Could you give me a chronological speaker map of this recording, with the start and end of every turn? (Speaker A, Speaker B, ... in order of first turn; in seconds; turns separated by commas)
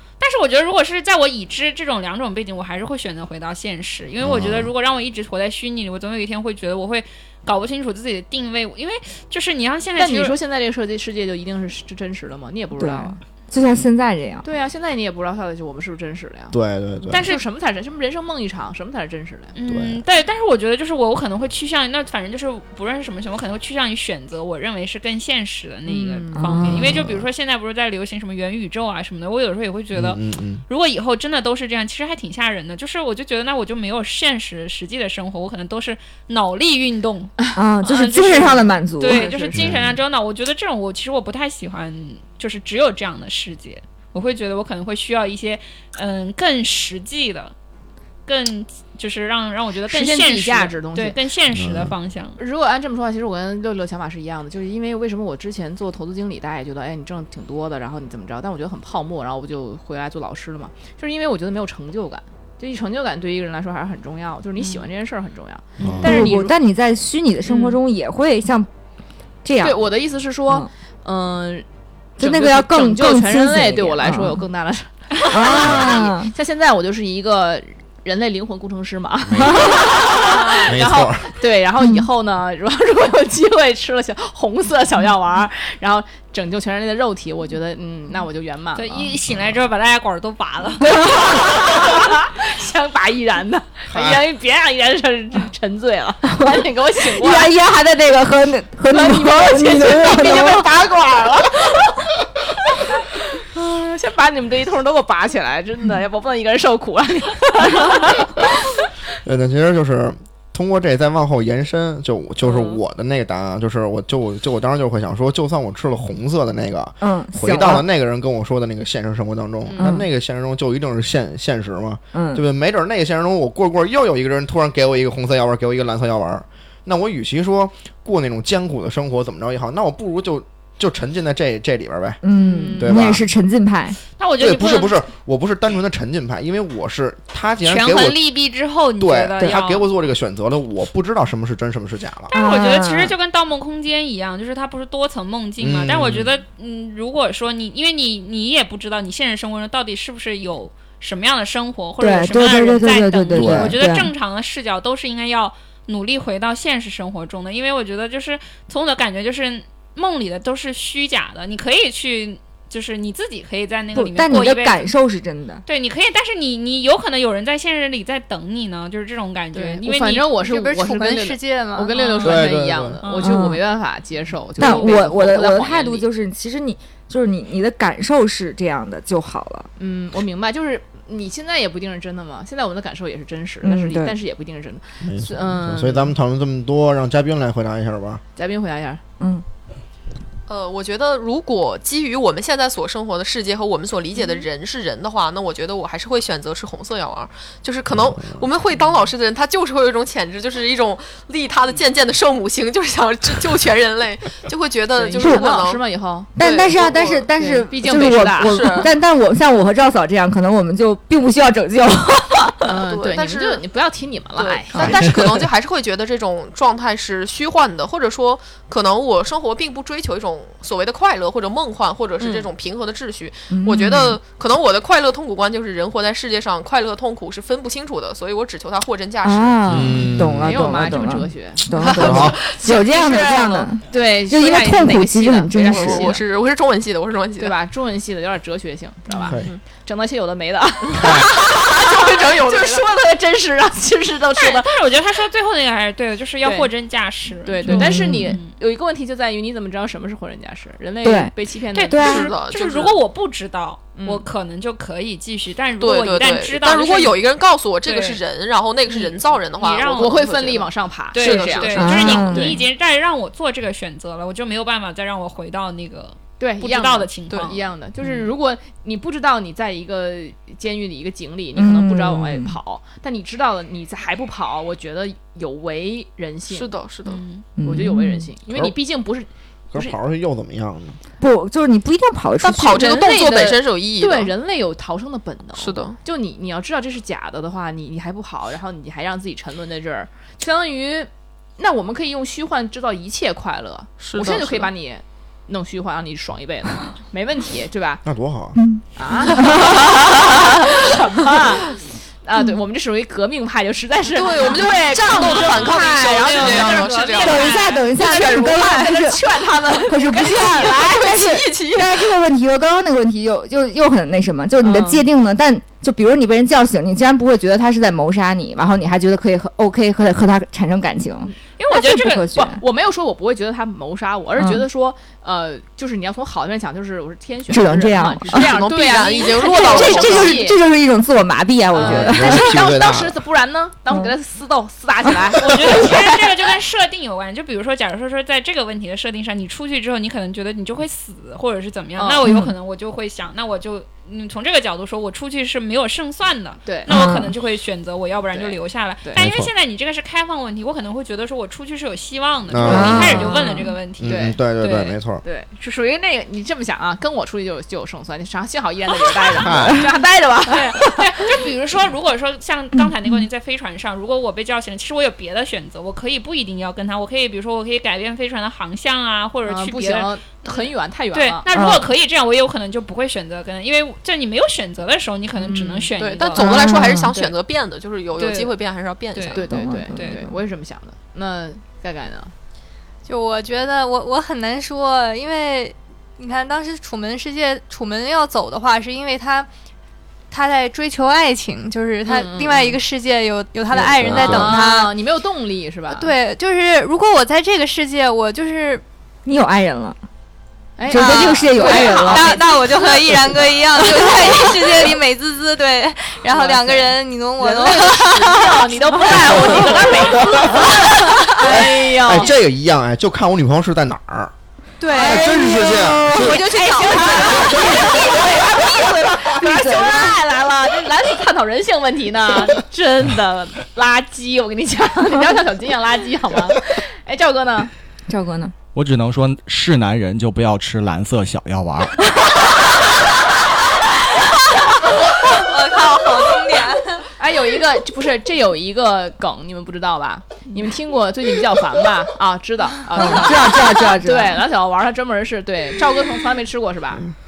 Speaker A: 0.2-10.4, Speaker B: 4.2-4.7, Speaker C: 10.0-13.2, Speaker D: 12.8-14.4, Speaker C: 14.4-16.6, Speaker B: 16.5-17.3, Speaker C: 17.1-19.5, Speaker A: 19.6-47.5, Speaker B: 19.7-20.0, Speaker C: 25.9-26.7, Speaker D: 26.4-27.0, Speaker B: 26.7-27.3, Speaker B: 29.9-30.6, Speaker D: 37.6-39.3, Speaker C: 39.1-39.7, Speaker B: 39.5-40.0, Speaker A: 48.3-52.4, Speaker C: 49.9-51.2, Speaker B: 51.6-51.9, Speaker C: 52.4-66.5, Speaker B: 65.8-66.3, Speaker D: 66.0-68.7, Speaker C: 67.5-67.8, Speaker D: 69.4-69.9, Speaker C: 69.6-71.7, Speaker D: 72.2-74.5, Speaker C: 72.2-89.1, Speaker D: 75.3-76.3, Speaker B: 75.7-76.0, Speaker B: 79.3-79.9, Speaker A: 80.2-80.7, Speaker B: 80.7-81.3, Speaker A: 88.8-91.2, Speaker D: 91.0-91.4, Speaker C: 91.2-97.5, Speaker B: 93.9-94.2, Speaker D: 96.3-100.7, Speaker C: 98.9-102.0, Speaker C: 102.8-108.4, Speaker B: 109.2-132.2, Speaker C: 112.5-112.8, Speaker D: 117.0-117.8, Speaker C: 119.7-120.0, Speaker D: 119.8-120.1, Speaker D: 122.1-122.4, Speaker D: 132.2-134.0, Speaker C: 132.3-133.1, Speaker B: 132.8-133.2, Speaker A: 134.2-135.0, Speaker B: 134.4-138.2, Speaker A: 137.6-139.9, Speaker B: 139.0-142.3, Speaker A: 142.3-164.9, Speaker D: 142.3-143.1, Speaker B: 145.6-146.3, Speaker D: 152.0-154.1, Speaker B: 153.3-153.8, Speaker D: 163.9-165.6, Speaker A: 165.7-170.3, Speaker C: 169.5-176.1, Speaker E: 170.4-172.0, Speaker A: 171.9-172.4, Speaker B: 172.2-173.0, Speaker A: 173.0-173.4, Speaker D: 173.2-173.6, Speaker D: 174.6-179.7, Speaker A: 174.6-175.0, Speaker C: 179.8-186.1, Speaker D: 183.6-184.2, Speaker B: 185.0-188.2, Speaker C: 188.4-189.0, Speaker F: 190.5-205.8, Speaker B: 198.2-198.4, Speaker C: 204.9-206.3, Speaker D: 205.2-205.5, Speaker D: 206.4-212.7, Speaker F: 206.4-207.3, Speaker C: 207.4-208.8, Speaker F: 208.4-208.9, Speaker C: 212.7-215.1, Speaker F: 212.9-213.6, Speaker F: 214.4-229.8, Speaker D: 214.8-215.2, Speaker C: 222.2-222.5, Speaker D: 223.5-224.2, Speaker D: 229.2-236.1, Speaker G: 229.7-230.4, Speaker B: 229.7-230.6, Speaker C: 230.4-236.2, Speaker B: 231.9-232.4, Speaker F: 235.7-237.6, Speaker C: 237.4-244.8, Speaker F: 239.3-239.6, Speaker B: 241.0-241.3, Speaker F: 241.8-242.9, Speaker A: 244.4-248.6, Speaker C: 246.4-246.7, Speaker C: 247.4-252.3, Speaker D: 247.7-248.3, Speaker D: 251.0-251.3, Speaker A: 251.8-257.2, Speaker D: 251.9-252.3, Speaker F: 252.0-253.0, Speaker C: 253.9-254.3, Speaker F: 255.8-260.7, Speaker A: 257.8-258.2, Speaker A: 259.0-260.4, Speaker C: 259.8-262.6, Speaker A: 261.1-268.3, Speaker F: 261.2-261.8, Speaker D: 261.8-262.6, Speaker C: 266.4-276.8, Speaker D: 271.6-272.6, Speaker F: 276.5-277.2, Speaker A: 277.1-277.4, Speaker D: 277.6-278.3, Speaker C: 277.6-280.0, Speaker B: 278.5-278.8, Speaker B: 279.7-281.0, Speaker D: 281.2-283.5, Speaker F: 282.4-284.3, Speaker C: 282.7-298.0, Speaker F: 285.6-286.0, Speaker F: 294.0-294.7, Speaker B: 298.1-298.6, Speaker D: 298.6-299.8, Speaker C: 299.0-311.8, Speaker F: 304.1-307.6, Speaker A: 305.1-307.9, Speaker D: 307.2-309.2, Speaker D: 309.9-322.6, Speaker C: 314.6-315.1, Speaker A: 321.6-322.3, Speaker C: 322.3-330.6, Speaker D: 324.4-324.6, Speaker D: 327.5-328.6, Speaker F: 328.3-330.5, Speaker D: 329.4-332.5, Speaker C: 331.7-336.1, Speaker B: 331.8-333.2, Speaker A: 335.4-355.0, Speaker C: 342.0-342.3, Speaker D: 342.2-342.5, Speaker D: 346.9-347.4, Speaker C: 348.3-349.2, Speaker B: 352.5-353.4, Speaker D: 352.6-353.8, Speaker B: 354.0-355.2, Speaker C: 354.1-354.4, Speaker C: 355.2-361.3, Speaker B: 359.4-359.9, Speaker A: 360.5-376.7, Speaker C: 369.4-371.5, Speaker D: 371.5-371.9, Speaker C: 375.4-375.9, Speaker F: 376.0-379.5, Speaker D: 376.4-377.1, Speaker A: 378.2-378.5, Speaker A: 379.1-380.2, Speaker C: 379.3-382.3, Speaker D: 379.5-380.2, Speaker E: 383.1-389.5, Speaker E: 390.3-394.9, Speaker C: 392.1-392.8, Speaker B: 393.7-394.5, Speaker C: 393.8-396.1, Speaker E: 395.9-398.8, Speaker D: 399.3-400.0, Speaker C: 400.8-404.9, Speaker D: 400.9-402.3, Speaker E: 400.9-411.4, Speaker C: 406.3-412.3, Speaker B: 411.5-414.3, Speaker E: 414.8-418.1, Speaker B: 414.9-416.4, Speaker C: 415.0-415.3, Speaker C: 416.1-427.7, Speaker D: 419.4-420.2, Speaker D: 428.1-428.5, Speaker G: 428.7-432.0, Speaker E: 435.1-437.1, Speaker C: 437.2-447.1, Speaker D: 442.9-444.4